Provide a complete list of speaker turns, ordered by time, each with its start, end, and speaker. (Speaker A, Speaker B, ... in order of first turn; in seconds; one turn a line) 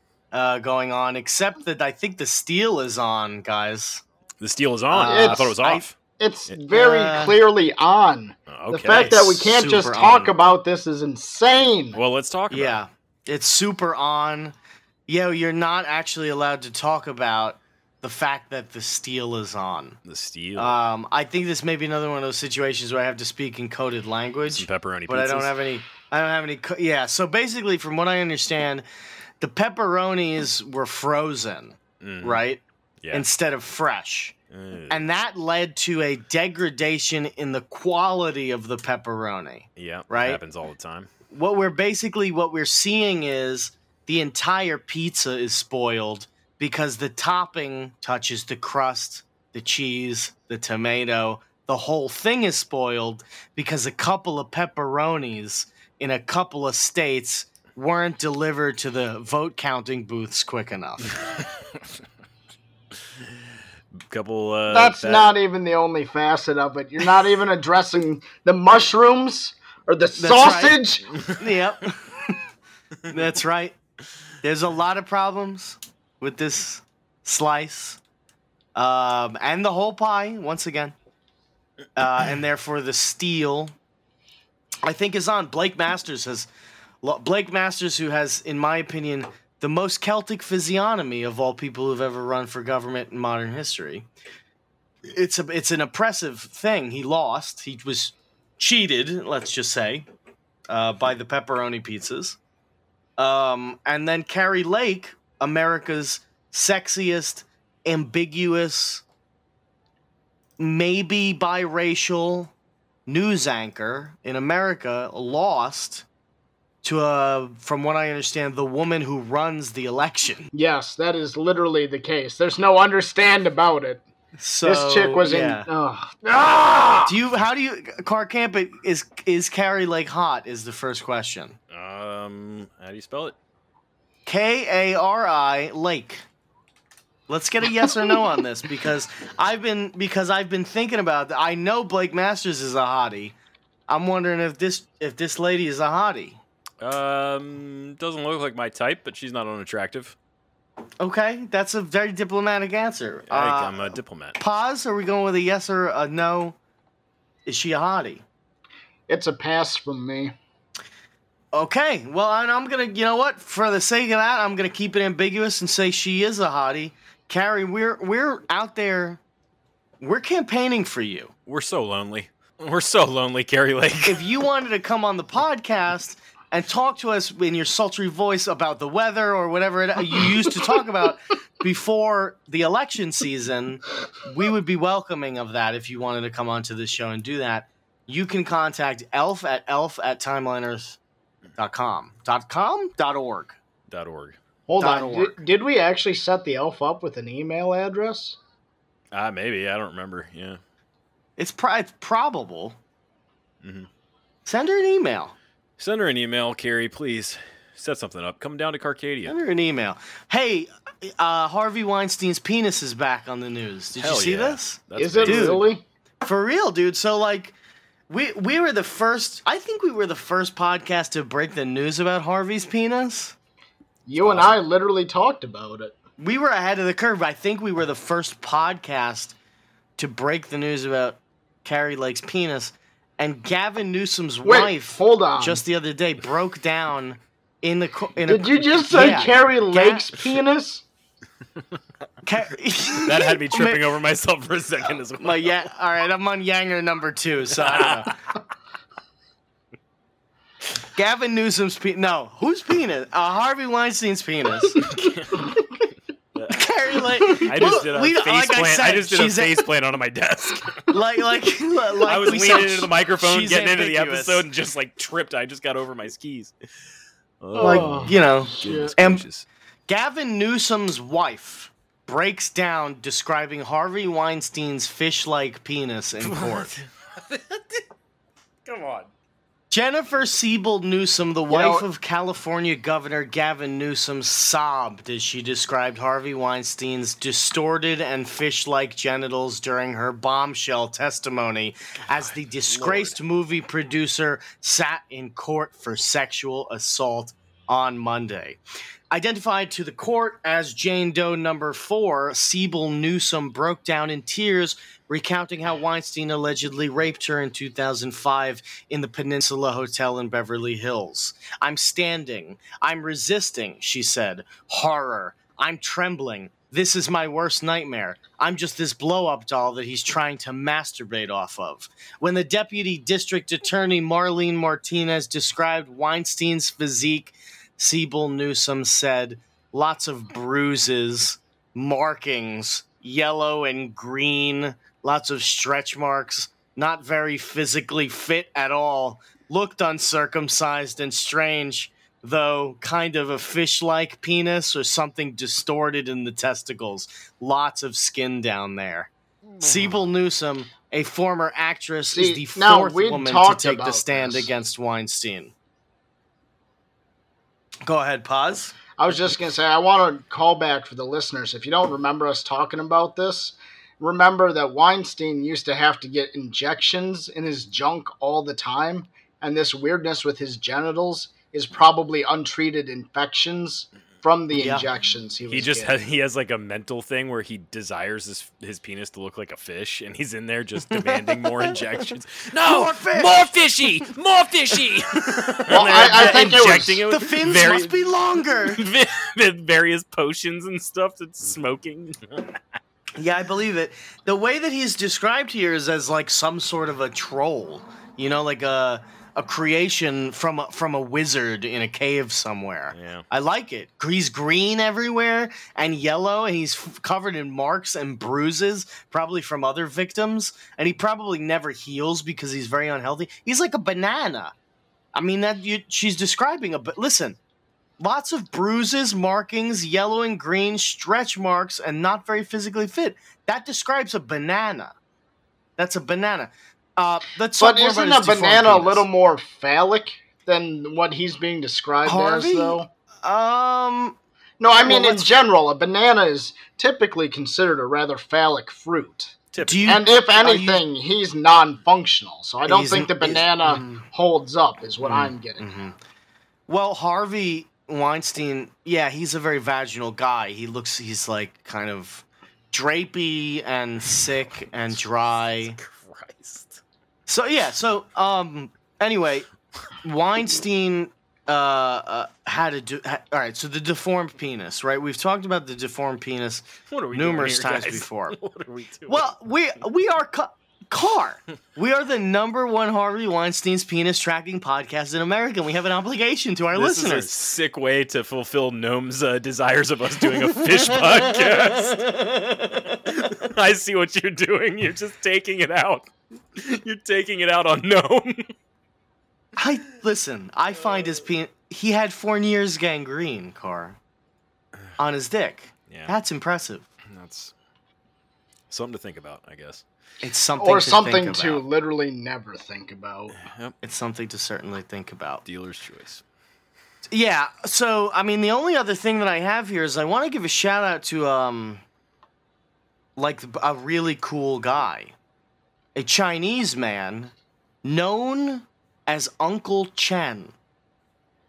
Speaker A: 0.3-4.0
Speaker B: 4.4-6.0
Speaker A: 4.9-5.8
Speaker C: 5.0-5.6
Speaker C: 6.2-12.0
Speaker A: 6.7-7.4
Speaker B: 8.5-9.3
Speaker A: 8.8-10.3
Speaker B: 11.9-12.8
Speaker A: 12.5-14.5
Speaker A: 15.1-20.0
Speaker B: 20.1-20.8
Speaker A: 20.6-28.9
Speaker B: 24.5-25.5
Speaker A: 29.4-32.6
Speaker B: 32.0-32.4
Speaker A: 33.1-34.3
Speaker B: 34.5-35.0
Speaker A: 34.9-40.4
Speaker B: 39.8-41.1
Speaker A: 41.3-61.2
Speaker B: 64.1-65.3
Speaker C: 64.7-71.1
Speaker A: 70.2-72.4
Speaker A: 73.1-73.8
Speaker A: 74.4-78.0
Speaker A: 78.8-81.0
Speaker A: 82.0-83.7
Speaker A: 84.8-86.5
Speaker A: 87.0-94.1
Speaker A: 95.1-100.1
Speaker A: 100.7-102.4
Speaker A: 103.2-109.0
Speaker A: 110.6-112.5
Speaker A: 113.1-116.1
Speaker A: 116.8-120.5
Speaker C: 120.5-124.0
Speaker A: 124.4-125.7
Speaker C: 124.6-127.1
Speaker A: 127.0-131.6
Speaker B: 131.7-133.4
Speaker A: 134.3-136.2
Speaker A: 137.3-143.3
Speaker A: 143.9-146.4
Speaker B: 146.8-150.2
Speaker A: 151.0-156.6
Speaker B: 153.3-154.4
Speaker A: 157.5-158.2
Speaker C: 159.1-160.3
Speaker A: 161.5-169.2
Speaker A: 170.0-171.3
Speaker B: 171.5-174.2
Speaker A: 174.1-191.0
Speaker A: 191.6-193.6
Speaker B: 193.9-194.4
Speaker C: 194.7-198.4
Speaker A: 194.8-195.4
Speaker B: 199.1-200.6
Speaker A: 201.4-202.8
Speaker B: 203.6-203.9
Speaker A: 204.5-205.3
Speaker B: 205.8-209.4
Speaker A: 209.3-215.6
Speaker B: 214.0-215.7
Speaker C: 215.0-215.8
Speaker A: 216.2-217.6
Speaker A: 218.1-223.3
Speaker C: 224.1-226.0
Speaker B: 224.2-224.5
Speaker A: 226.2-229.3
Speaker A: 230.0-240.2
Speaker C: 234.4-235.6
Speaker C: 238.3-240.8
Speaker A: 242.2-243.8
Speaker B: 243.0-245.6
Speaker A: 245.2-248.2
Speaker B: 247.6-248.2
Speaker A: 250.9-254.9
Speaker B: 254.9-255.5
Speaker A: 256.5-259.6
Speaker B: 257.3-261.0
Speaker A: 260.9-264.4
Speaker B: 262.0-266.5
Speaker B: 267.4-269.4
Speaker C: 267.5-268.9
Speaker A: 267.6-269.2
Speaker A: 269.9-276.7
Speaker B: 276.2-277.8
Speaker B: 278.6-279.1
Speaker A: 279.7-298.6
Speaker C: 281.5-281.9
Speaker B: 292.1-293.2
Speaker A: 299.1-355.5
Speaker B: 349.6-350.0
Speaker C: 352.1-354.5
Speaker A: 357.9-358.8
Speaker C: 359.0-376.0
Speaker A: 374.5-374.9
Speaker B: 375.5-392.6
Speaker A: 381.0-381.8
Speaker A: 382.6-383.6
Speaker A: 385.3-388.8
Speaker C: 385.7-387.1
Speaker A: 393.2-414.5
Speaker B: 402.9-403.2
Speaker A: 415.1-417.4
Speaker A: 418.0-424.9
Speaker A: 425.8-429.1
Speaker C: 427.6-432.9
Speaker A: 432.1-434.2
Speaker C: 434.6-445.7
Speaker A: 434.8-435.3
Speaker B: 439.5-440.0
Speaker A: 439.6-440.8
Speaker A: 442.7-444.1
Speaker A: 445.0-446.0
Speaker A: 446.7-455.8
Speaker B: 455.6-456.8
Speaker A: 457.3-459.5
Speaker A: 460.0-468.4
Speaker B: 466.9-469.4
Speaker A: 469.1-477.4
Speaker B: 476.8-482.2
Speaker A: 480.5-483.1
Speaker B: 483.1-488.5
Speaker A: 489.6-494.0
Speaker A: 495.0-496.9
Speaker B: 495.9-496.1
Speaker B: 497.1-497.5
Speaker B: 498.7-499.8
Speaker A: 500.2-501.6
Speaker C: 500.6-503.4
Speaker B: 503.3-503.8
Speaker A: 503.8-505.4
Speaker B: 505.4-506.2
Speaker A: 507.1-511.8
Speaker A: 513.2-515.1
Speaker A: 516.0-517.3
Speaker A: 517.8-520.5